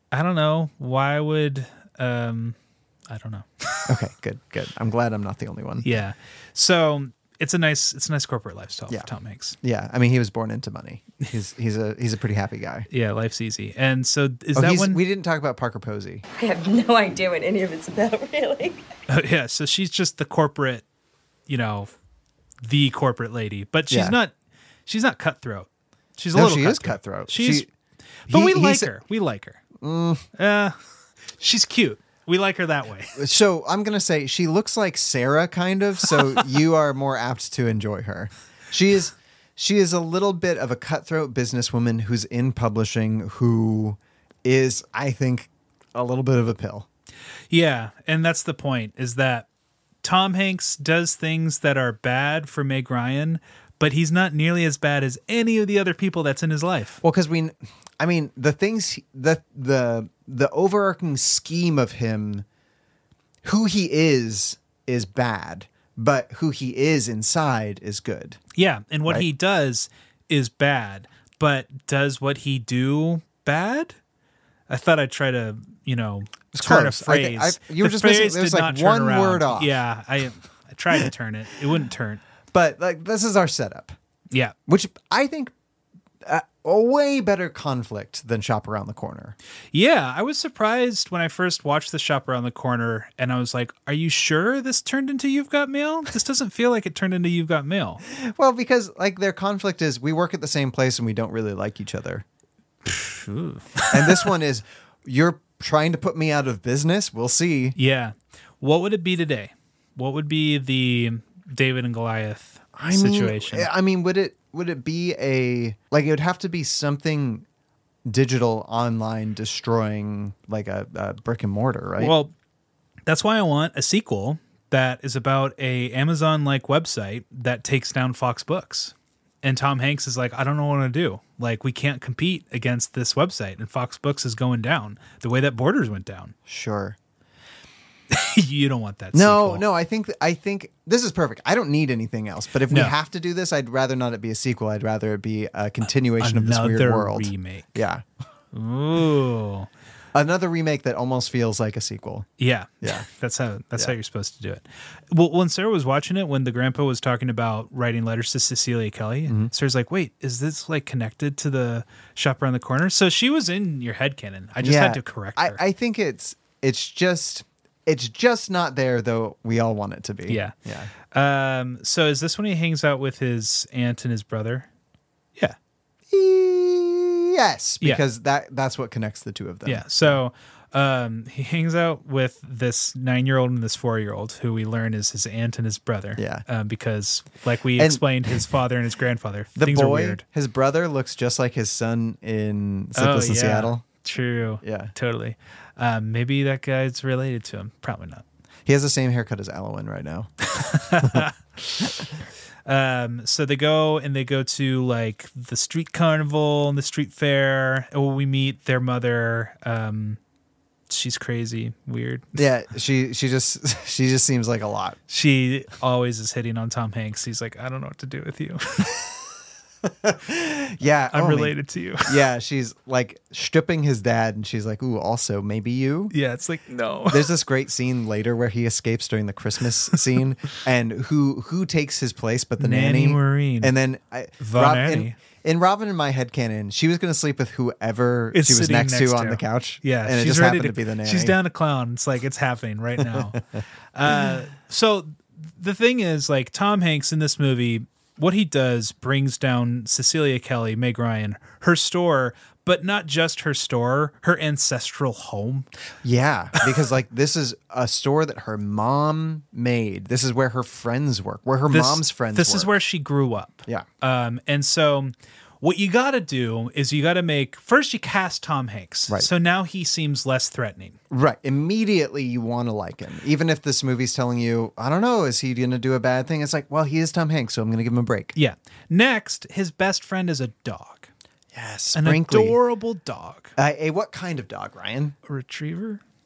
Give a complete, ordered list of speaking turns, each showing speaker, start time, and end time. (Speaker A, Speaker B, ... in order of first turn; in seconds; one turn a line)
Speaker A: 0.1-2.6
Speaker A: 3.1-3.9
Speaker B: 3.9-5.9
Speaker A: 5.8-9.6
Speaker B: 9.6-12.8
Speaker A: 12.9-15.0
Speaker B: 14.5-16.2
Speaker C: 16.4-18.8
Speaker A: 19.1-20.8
Speaker A: 21.5-21.9
Speaker A: 22.6-24.3
Speaker B: 23.9-24.1
Speaker A: 24.9-27.7
Speaker B: 26.3-27.7
Speaker A: 28.3-29.6
Speaker B: 28.3-28.9
Speaker B: 29.8-30.2
Speaker A: 30.4-30.8
Speaker A: 31.4-33.2
Speaker B: 33.1-46.9
Speaker A: 47.5-49.5
Speaker A: 50.0-57.0
Speaker B: 57.0-62.4
Speaker B: 63.4-68.4
Speaker A: 68.5-74.0
Speaker A: 74.7-82.2
Speaker B: 76.5-79.8
Speaker B: 82.5-83.9
Speaker B: 84.7-85.5
Speaker B: 86.2-89.3
Speaker A: 89.7-98.0
Speaker B: 98.1-102.2
Speaker A: 102.9-104.3
Speaker B: 103.9-107.8
Speaker A: 107.8-113.7
Speaker B: 112.7-117.5
Speaker B: 118.0-122.1
Speaker A: 122.0-122.3
Speaker A: 123.0-136.3
Speaker B: 136.5-137.0
Speaker A: 138.1-139.6
Speaker B: 139.1-148.0
Speaker A: 142.7-142.9
Speaker A: 146.2-147.8
Speaker A: 148.5-149.7
Speaker B: 150.1-152.3
Speaker A: 152.4-165.6
Speaker B: 159.3-159.5
Speaker B: 164.6-170.9
Speaker A: 170.3-170.5
Speaker A: 171.1-174.7
Speaker B: 176.1-180.2
Speaker A: 179.7-190.2
Speaker B: 186.2-186.4
Speaker B: 187.8-188.0
Speaker B: 189.6-193.8
Speaker A: 192.9-198.2
Speaker B: 194.6-194.9
Speaker B: 198.7-200.3
Speaker A: 200.5-202.1
Speaker B: 200.9-201.2
Speaker A: 202.7-210.2
Speaker A: 210.9-212.3
Speaker B: 212.3-215.0
Speaker A: 215.1-218.9
Speaker B: 219.8-226.1
Speaker A: 221.1-222.2
Speaker A: 226.1-227.3
Speaker B: 227.1-241.3
Speaker A: 232.6-233.7
Speaker A: 234.4-235.2
Speaker A: 238.3-243.4
Speaker B: 243.0-243.4
Speaker A: 243.9-255.7
Speaker B: 256.0-262.8
Speaker A: 261.7-271.0
Speaker B: 271.1-278.3
Speaker A: 278.4-281.1
Speaker B: 281.5-282.6
Speaker A: 281.9-283.5
Speaker B: 283.6-285.1
Speaker A: 285.2-286.0